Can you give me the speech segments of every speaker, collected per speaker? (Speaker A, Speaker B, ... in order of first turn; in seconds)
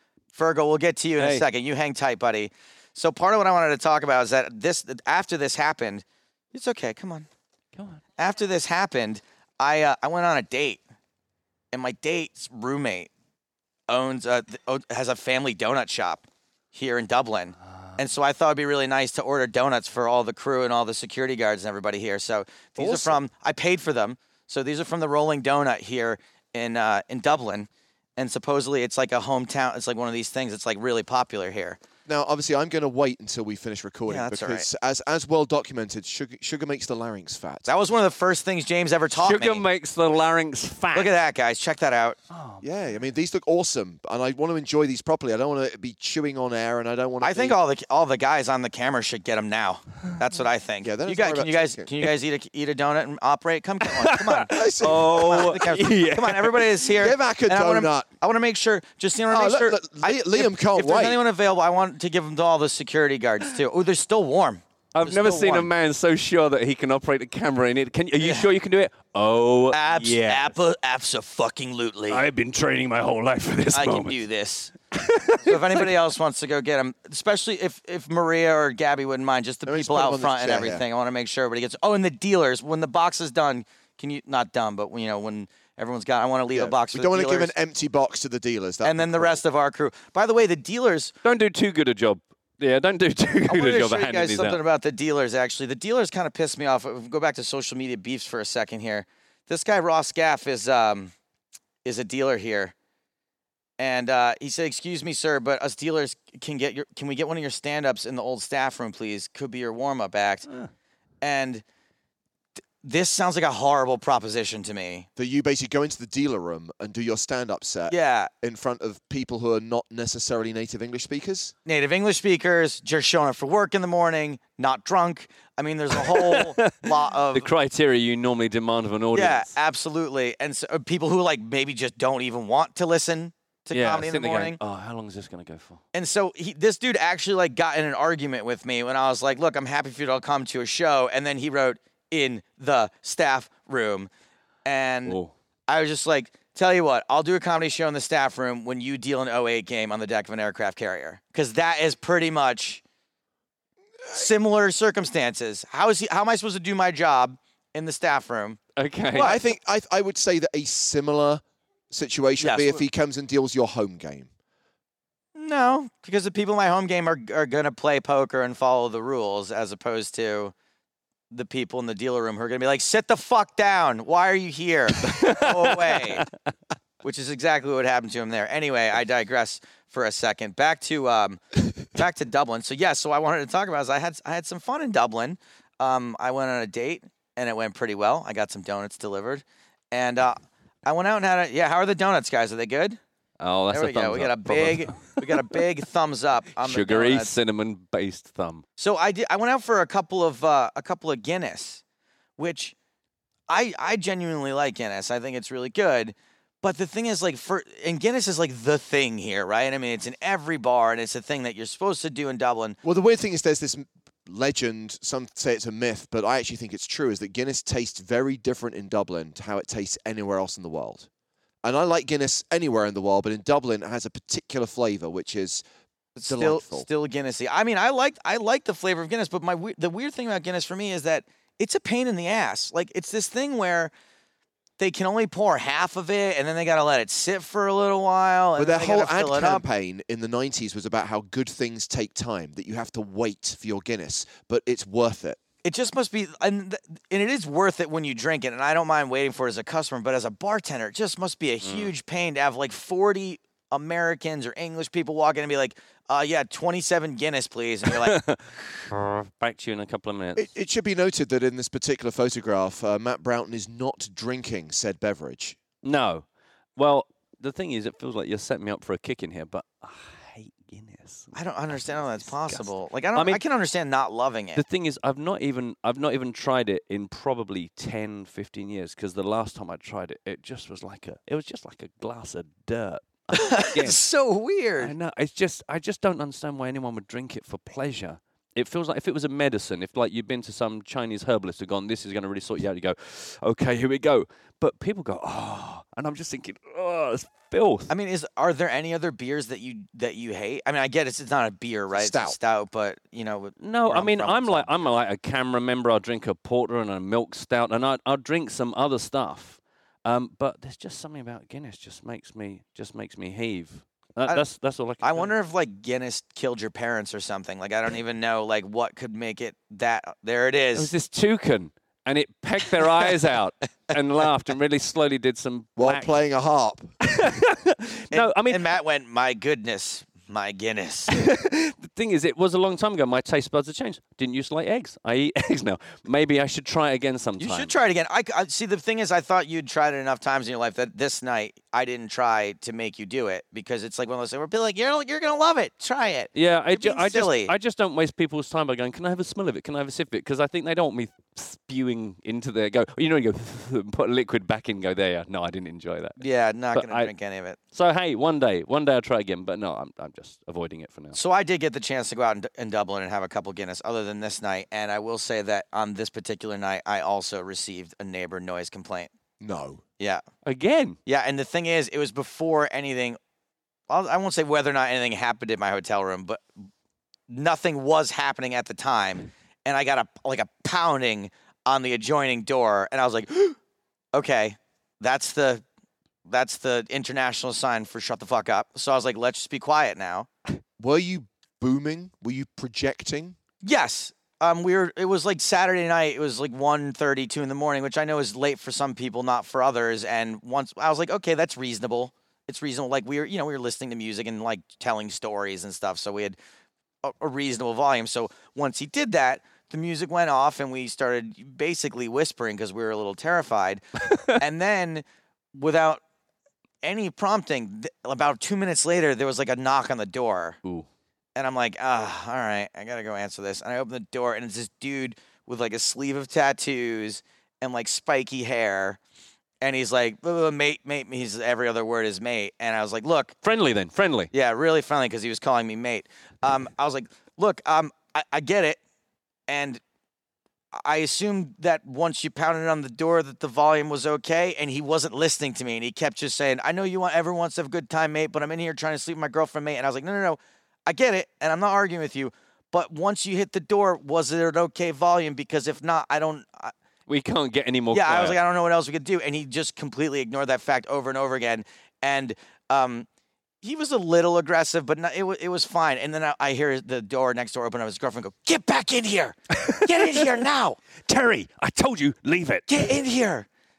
Speaker A: 0.3-7.3, 8.2-10.8, 11.7-13.1, 13.9-31.8, 34.1-34.7, 37.7-39.6, 40.9-42.2, 47.2-65.7, 68.2-68.5, 69.7-72.2, 73.7-74.7, 75.4-87.5, 88.8-91.1, 93.5-101.1, 101.8-102.7, 103.8-110.5, 111.2-111.6, 112.8-115.1, 117.9-118.3, 121.7-127.5, 129.1-134.6, 135.9-144.1, 144.7-145.2, 145.7-152.8, 154.1-158.6, 159.1-159.5, 162.4-162.8, 165.3-170.5, 171.3-176.3, 177.0-193.0, 193.7-197.3, 198.8-201.8, 202.4-202.8, 203.5-212.8, 226.2-233.9, 234.8-239.6, 245.6-258.2, 271.3-274.6, 283.3-284.9, 297.9-304.7, 315.0-320.9, 328.1-331.2, 337.4-347.5, 356.2-357.6, 361.1-369.1, 371.1-373.2, 373.9-376.4, 377.3-383.6, 384.1-385.6, 386.3-390.3, 393.6-406.4, 407.0-416.0, 416.8-420.6, 421.4-429.0, 429.6-433.4, 434.3-438.8, 439.5-439.8, 440.7-456.7, 457.9-463.1, 463.6-470.8, 472.7-473.5
Speaker B: 1.2-1.4, 39.1-41.1, 42.3-42.7, 53.9-56.8, 64.9-70.6, 72.1-74.2, 74.9-75.9, 91.2-94.6, 126.0-129.6, 133.7-135.8, 145.1-145.3, 158.8-159.3, 175.0-176.2, 193.4-195.6, 196.6-198.6, 251.6-251.9, 257.9-260.5, 265.8-266.2, 266.8-273.4, 274.6-284.0, 284.8-297.9, 303.6-315.3, 320.8-326.1, 327.0-328.7, 331.1-337.7, 346.4-356.2, 356.7-357.1, 357.7-361.2, 370.5-371.0, 433.4-434.3, 457.1-458.4, 469.6-470.3, 471.1-472.9
Speaker C: 22.8-23.2, 32.1-37.7, 42.6-47.6, 50.8-51.9, 54.5-55.6, 57.0-58.1, 59.3-61.2, 79.7-80.8, 86.5-89.4, 115.2-121.5, 159.2-164.3, 212.8-221.1, 221.6-225.6, 226.3-226.9, 238.6-245.4, 260.4-265.6, 301.9-302.4, 325.8-326.9, 369.4-369.8, 390.8-393.4